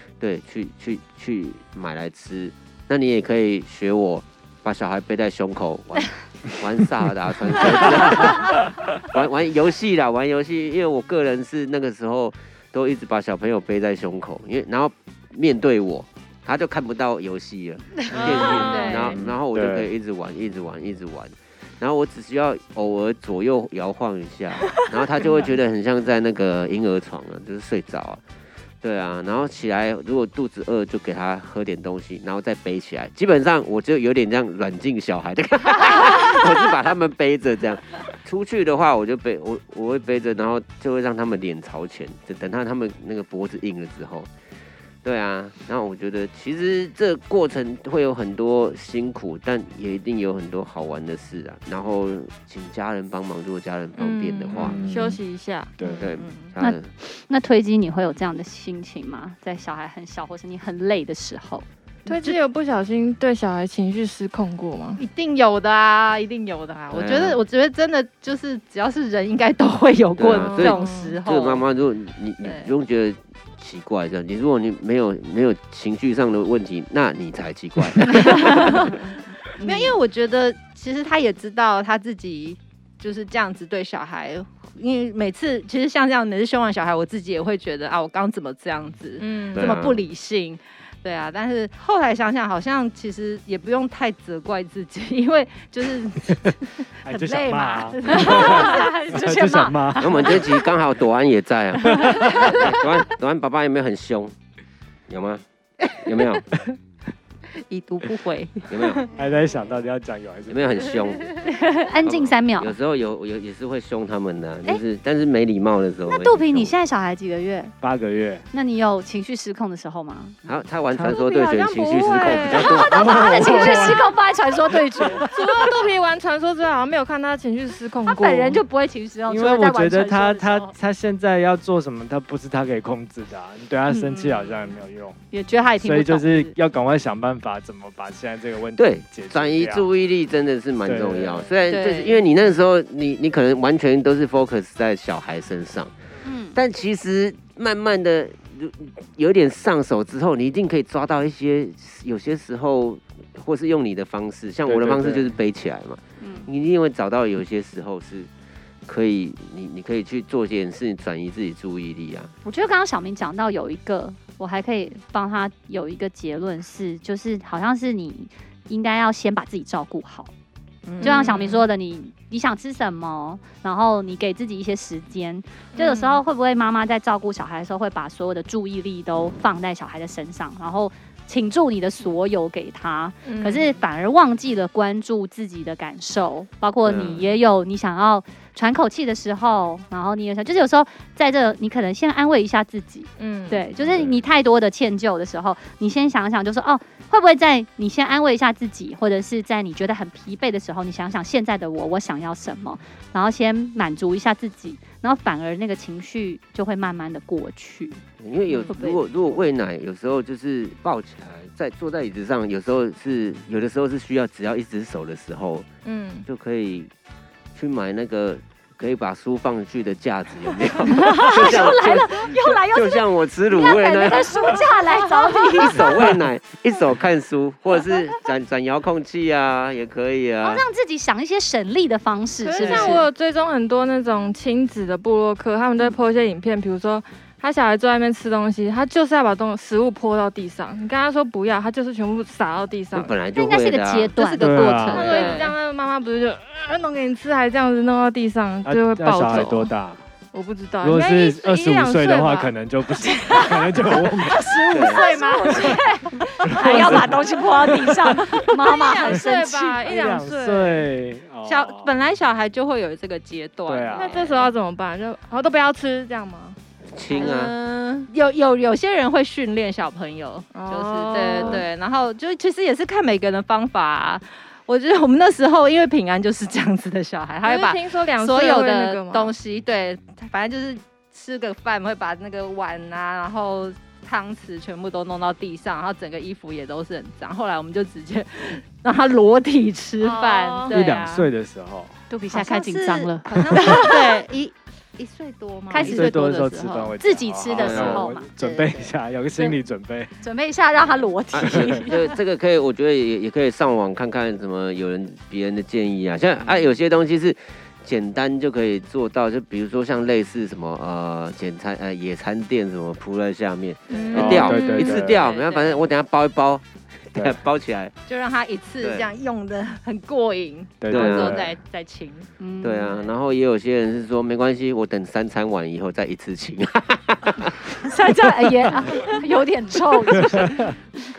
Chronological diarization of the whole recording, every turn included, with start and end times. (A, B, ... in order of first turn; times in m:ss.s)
0:00.2-0:28.2 A
0:18.1-0:19.2 B
0:18.2-0:19.1 C
0:19.1-0:19.9 D
0:28.8-0:44.3 A
0:45.0-0:54.8 A
0:54.0-0:56.1 B
0:54.5-0:55.2 D
0:55.8-0:56.1 D
0:56.0-0:56.9 A
0:56.1-0:56.5 C
0:56.6-1:01.6 E
1:02.0-1:02.4 C
1:02.1-1:05.0 B
1:05.0-1:11.6 C
1:06.9-1:07.4 A
1:10.2-1:18.9 A
1:10.3-1:11.2 B
1:12.4-1:12.7 C
1:18.2-1:19.0 C
1:19.6-1:20.0 E
1:19.6-1:39.0 C
1:29.2-1:29.8 B
1:29.5-1:30.0 A
1:37.0-1:40.5 D
1:37.3-1:40.5 E
1:40.0-1:44.3 A
1:41.8-1:42.5 D
1:45.1-1:45.4 A
1:46.0-1:46.4 A
1:47.5-1:49.0 C
1:48.7-1:49.1 A
1:49.1-1:51.1 D
1:50.5-1:51.5 A
1:51.4-1:52.7 E
1:52.0-1:56.7 A
1:56.1-1:57.7 E
1:57.8-1:58.4 D
1:58.5-2:00.4 E
2:00.4-2:03.7 A
2:00.9-2:01.2 D
2:01.1-2:02.9 B
2:02.1-2:02.5 C
2:02.5-2:05.2 E
2:02.9-2:04.1 D
2:05.0-2:05.3 D
2:05.3-2:08.6 B
2:08.1-2:10.7 E
2:09.3-2:15.2 D
2:13.9-2:14.4 E
2:15.3-2:16.5 E
2:15.8-2:19.8 D
2:18.8-2:25.9 A
2:20.8-2:21.5 D
2:21.7-2:22.2 C
2:26.2-2:26.6 E
2:26.5-2:38.3 A
2:34.7-2:35.3 D
2:36.2-2:36.5 E
2:38.8-2:42.3 A
2:42.4-2:50.3 E
2:50.9-2:51.5 C
2:51.0-2:51.6 B
2:51.0-3:28.0 E
2:55.8-2:56.2 B
3:03.2-3:03.8 B
3:06.8-3:07.3 A
3:13.2-3:13.6 B
3:13.8-3:14.2 A
3:28.2-3:35.7 A
3:28.7-3:29.0 E
3:35.8-3:36.3 B
3:36.2-3:36.9 A
3:37.5-3:44.6 A
3:40.9-3:45.8 E
3:45.6-3:50.6 A
3:50.4-3:53.0 E
3:52.4-4:03.1 B
3:52.6-3:53.0 A
4:02.9-4:04.1 A
4:03.4-4:05.4 E
4:04.1-4:05.5 C
4:04.4-4:05.2 D
4:04.9-4:09.7 B
4:08.6-4:10.0 D
4:10.3-4:15.8 B
4:10.8-4:14.5 D
4:14.3-4:19.8 E
4:14.7-4:15.0 A
4:16.4-4:17.3 D
4:16.5-4:17.1 B
4:18.5-4:20.9 B
4:19.8-4:21.9 D
4:21.4-4:24.5 C
4:23.6-4:24.2 D
4:23.9-4:26.6 B
4:26.9-4:27.5 A
4:27.1-4:51.3 C
4:30.5-4:31.7 B
4:37.4-4:39.3 B
4:50.0-4:50.8 B
4:50.7-4:51.9 D
4:52.1-4:53.8 E
4:52.3-4:56.9 C
4:55.7-4:56.2 E
4:55.8-5:00.1 D
4:57.0-4:58.3 E
4:57.6-4:58.1 A
4:58.4-4:58.8 C
5:00.2-5:02.2 E
5:01.3-5:17.9 A
5:01.4-5:01.8 D
5:13.9-5:15.0 B
5:13.9-5:15.8 C
5:14.1-5:15.2 D
5:18.1-5:22.3 C
5:18.8-5:19.1 A
5:20.8-5:21.5 D
5:20.9-5:21.4 A
5:22.4-5:23.1 E
5:22.6-5:27.7 A
5:27.8-5:30.7 E
5:30.1-5:30.7 D